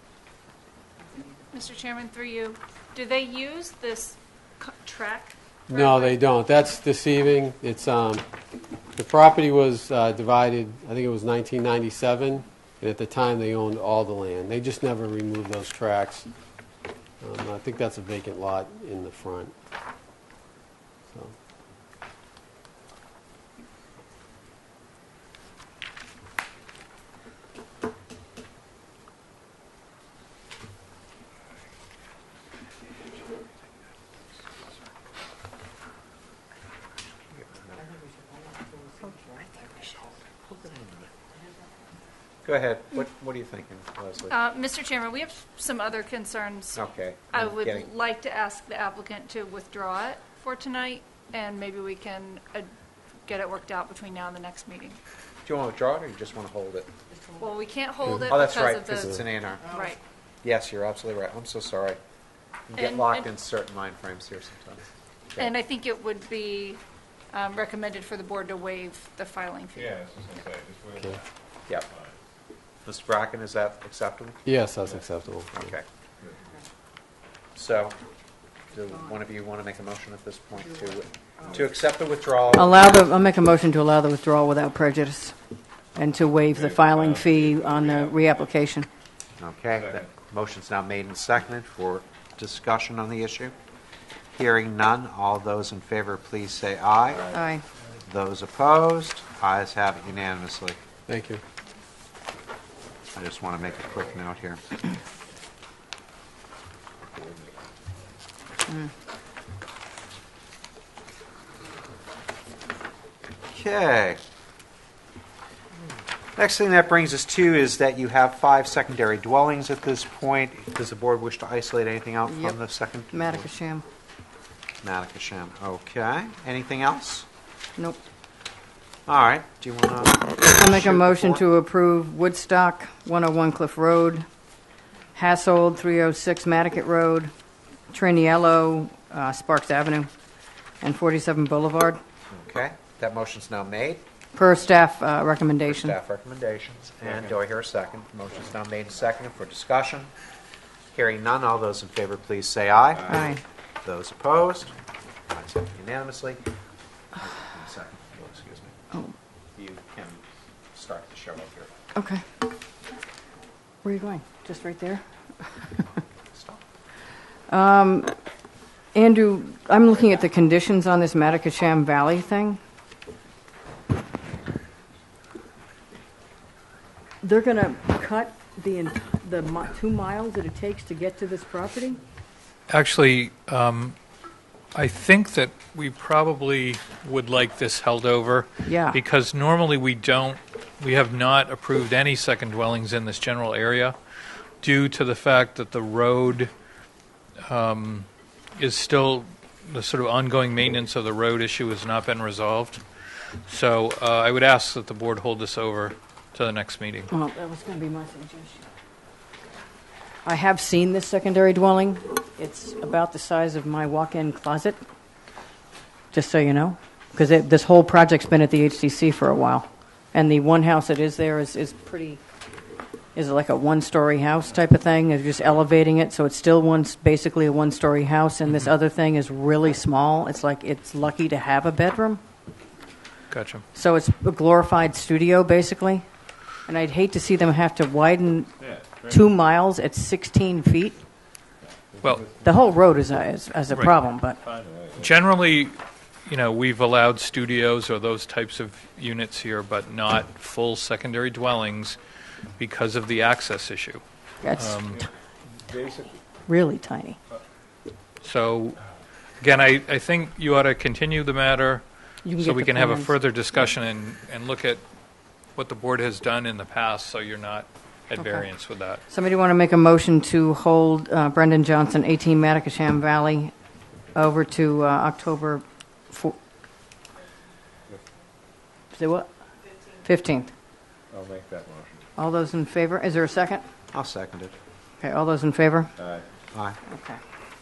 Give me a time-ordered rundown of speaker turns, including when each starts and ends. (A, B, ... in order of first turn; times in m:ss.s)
0:01.5-0:06.2 A
0:05.7-0:08.3 B
0:08.9-0:16.3 B
0:17.2-0:19.5 B
0:21.1-0:21.4 B
0:40.5-0:40.8 C
0:42.4-0:44.4 C
0:44.3-0:46.8 A
0:46.8-0:47.9 C
0:47.3-0:52.7 A
0:53.2-0:55.0 A
0:55.4-0:56.9 C
0:57.4-0:59.2 A
0:58.3-0:59.7 C
0:59.7-1:00.0 A
1:00.4-1:02.0 C
1:02.7-1:05.5 C
1:02.8-1:03.3 A
1:05.4-1:06.8 A
1:07.3-1:09.9 A
1:09.8-1:11.2 D
1:11.9-1:12.2 D
1:12.8-1:14.4 C
1:14.4-1:15.7 B
1:15.6-1:15.9 C
1:17.6-1:18.0 C
1:18.7-1:22.9 C
1:22.5-1:25.4 E
1:26.0-1:28.9 E
1:26.5-1:28.5 D
1:29.4-1:33.6 C
1:29.8-1:30.1 D
1:34.4-1:37.3 C
1:37.3-1:37.6 E
1:38.1-1:40.8 C
1:41.1-1:41.4 B
1:43.2-1:44.6 C
1:53.5-1:54.2 C
1:56.4-2:03.5 C
2:02.3-2:02.6 E
2:03.1-2:03.8 E
2:04.8-2:07.3 C
2:09.1-2:11.4 C
2:10.5-2:14.2 E
2:15.2-2:17.3 E
2:17.9-2:20.1 E
2:20.8-2:22.0 E
2:22.3-2:24.0 C
2:24.4-2:26.0 E
2:25.7-2:30.1 C
2:27.0-2:27.3 D
2:30.9-2:33.2 C
2:33.1-2:33.4 E
2:33.8-2:34.8 C
2:35.3-2:36.4 C
2:37.1-2:38.7 C
2:39.6-2:40.2 C
2:40.7-2:41.7 C
2:42.0-2:42.2 E
2:43.8-2:46.0 E
2:46.3-2:46.6 C
2:47.5-2:48.1 E
2:48.9-2:52.6 E
2:57.2-3:02.0 E
3:02.7-3:04.0 F
3:04.7-3:14.0 F
3:08.6-3:09.0 E
3:14.6-3:16.5 F
3:17.4-3:27.1 F
3:27.1-3:28.6 E
3:30.2-3:34.8 E
3:36.1-3:42.2 E
3:43.2-3:52.2 E
3:53.3-3:53.6 F
3:53.7-3:58.6 E
3:58.6-3:59.3 D
3:59.1-4:01.0 E
4:01.6-4:02.6 D
4:02.4-4:04.4 E
4:03.7-4:04.0 F
4:04.4-4:05.2 D
4:05.0-4:12.0 F
4:12.6-4:14.0 F
4:14.4-4:14.8 E
4:14.5-4:15.0 F
4:14.9-4:16.2 D
4:16.5-4:17.2 E
4:18.2-4:18.8 F
4:19.4-4:21.8 F
4:22.2-4:23.1 E
4:22.4-4:24.8 F
4:25.6-4:29.0 F
4:28.2-4:28.5 E
4:29.1-4:33.5 E
4:34.1-4:36.4 E
4:38.9-4:39.3 E
4:40.0-4:40.5 E
4:41.1-4:42.0 D
4:42.2-4:43.6 E
4:43.9-4:44.6 C
4:45.0-4:45.9 E
4:46.0-4:46.3 D
4:46.5-4:46.8 C
4:46.9-4:47.2 E